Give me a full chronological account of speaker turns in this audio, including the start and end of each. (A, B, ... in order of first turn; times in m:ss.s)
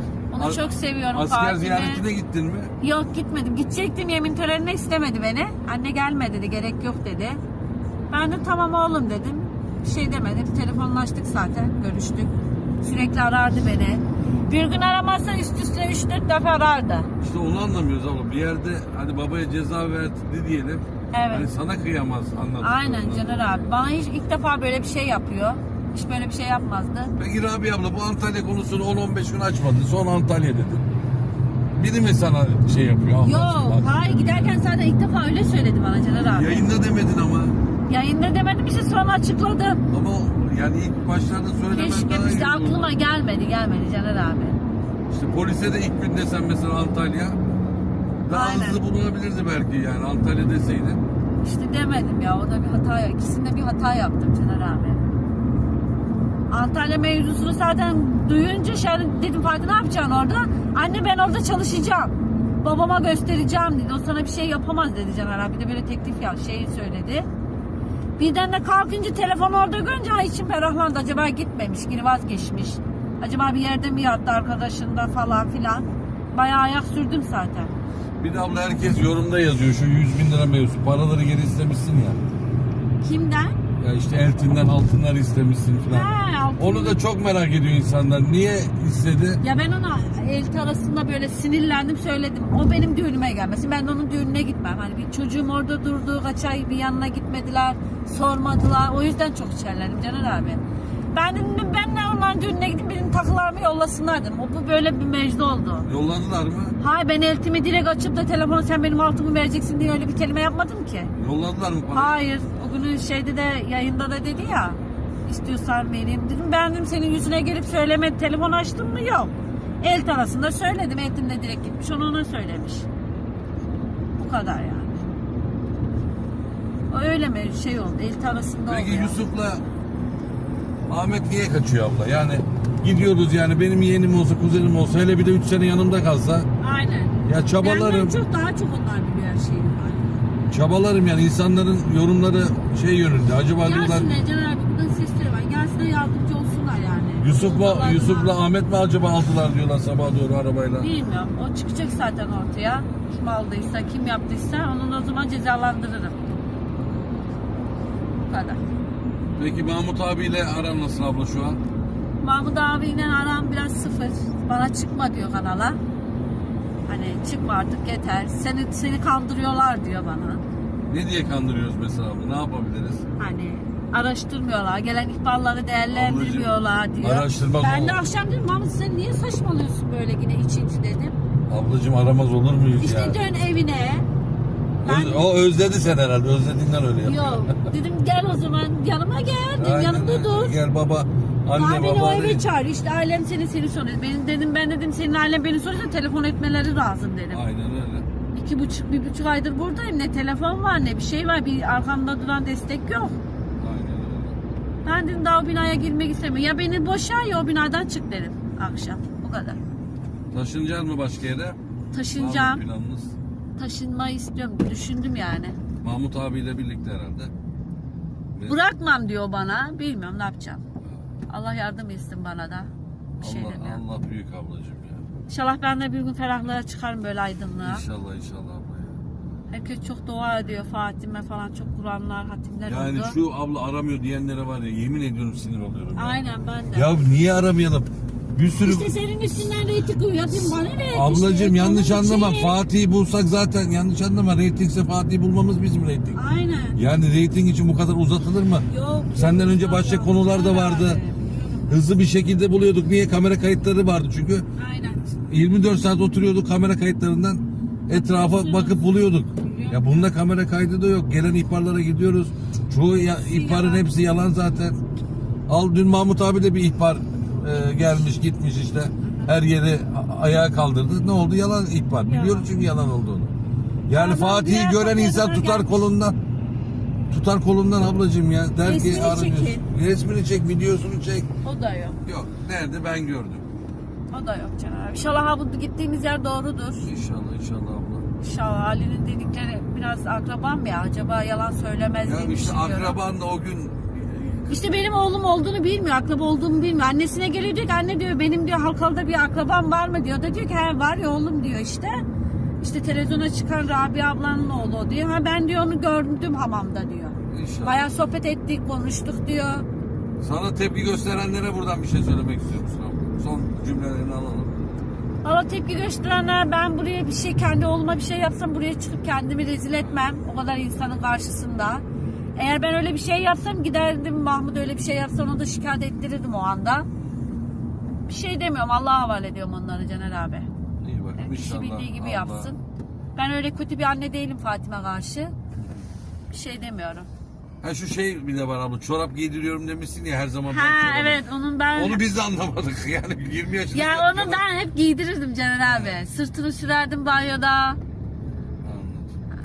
0:00.3-0:02.0 A
0:00.4-0:02.7 B
0:02.8-0:07.4 A
0:08.1-0:17.1 A
0:17.2-0:23.7 B
0:21.1-0:21.5 A
0:22.6-0:27.1 A
0:27.2-0:30.9 B
0:31.8-0:34.6 B
0:33.2-0:36.7 A
0:36.2-0:37.6 B
0:37.9-0:39.8 A
0:39.9-0:43.0 B
0:41.7-0:44.6 A
0:45.1-0:47.4 B
0:48.2-0:51.0 B
0:48.3-0:48.8 A
0:51.4-0:55.0 A
0:56.5-1:07.3 A
1:08.2-1:17.7 A
1:18.2-1:22.2 B
1:23.0-1:23.6 A
1:23.8-1:29.4 B
1:25.9-1:27.0 A
1:29.4-1:40.6 A
1:41.1-1:45.9 A
1:45.9-1:46.8 B
1:46.8-1:51.1 A
1:51.2-1:52.2 B
1:51.9-2:02.9 A
2:04.2-2:05.0 A
2:06.9-2:09.2 A
2:08.7-2:09.6 B
2:10.9-2:16.5 B
2:16.6-2:20.2 A
2:17.2-2:18.2 B
2:20.5-2:24.1 B
2:23.6-2:28.4 A
2:27.2-2:30.9 B
2:30.8-2:36.2 A
2:38.3-2:38.6 A
2:39.4-2:41.6 B
2:42.2-2:45.8 A
2:46.9-2:50.4 A
2:50.9-2:53.0 B
2:53.2-3:01.2 A
2:55.9-2:58.0 B
3:01.5-3:03.2 B
3:02.8-3:04.1 A
3:04.8-3:07.7 B
3:04.8-3:05.3 A
3:07.0-3:10.6 A
3:09.6-3:12.4 B
3:11.5-3:17.4 A
3:17.3-3:18.1 B
3:18.3-3:23.2 A
3:23.6-3:24.4 B
3:24.8-3:29.6 A
3:30.3-3:31.6 B
3:31.9-3:32.6 A
3:32.1-3:33.2 B
3:33.6-3:35.6 A
3:35.8-3:37.3 B
3:38.5-3:40.6 A
3:41.3-3:42.7 A
3:43.2-3:45.1 B
3:43.2-3:43.8 A
3:45.3-3:47.8 A
3:47.6-3:49.0 B
3:49.5-3:53.2 A
3:52.7-3:56.2 B
3:56.0-3:57.0 A
3:56.7-3:58.9 B
3:58.6-4:02.6 A
4:00.9-4:06.2 B
4:06.1-4:06.8 A
4:06.8-4:11.0 B
4:08.7-4:11.8 A
4:11.7-4:14.4 B
4:14.6-4:15.0 A
4:15.3-4:24.8 B
4:17.9-4:20.1 A
4:23.2-4:23.9 A
4:25.5-4:33.3 B
4:29.0-4:29.3 A
4:32.1-4:32.5 A
4:33.9-4:36.2 B
4:33.9-4:35.9 A
4:37.1-4:41.3 B
4:38.6-4:39.6 A
4:41.4-4:42.0 A
4:42.0-4:43.5 B
4:44.1-4:46.9 A
4:46.8-4:48.1 B
4:48.2-4:53.0 A
4:52.0-4:54.6 B
4:54.5-5:02.0 A
5:02.6-5:09.7 A
5:07.3-5:07.9 B
5:10.2-5:14.9 B
5:15.2-5:21.8 A
5:22.4-5:26.9 A
5:28.1-5:30.5 A
5:30.8-5:32.5 B
5:31.2-5:32.6 A
5:33.2-5:35.3 A
5:35.6-5:35.8 B
5:36.3-5:37.1 A
5:37.6-5:44.4 B
5:40.5-5:42.0 A
5:43.7-5:47.8 A
5:45.6-5:46.0 B
5:48.6-5:49.1 B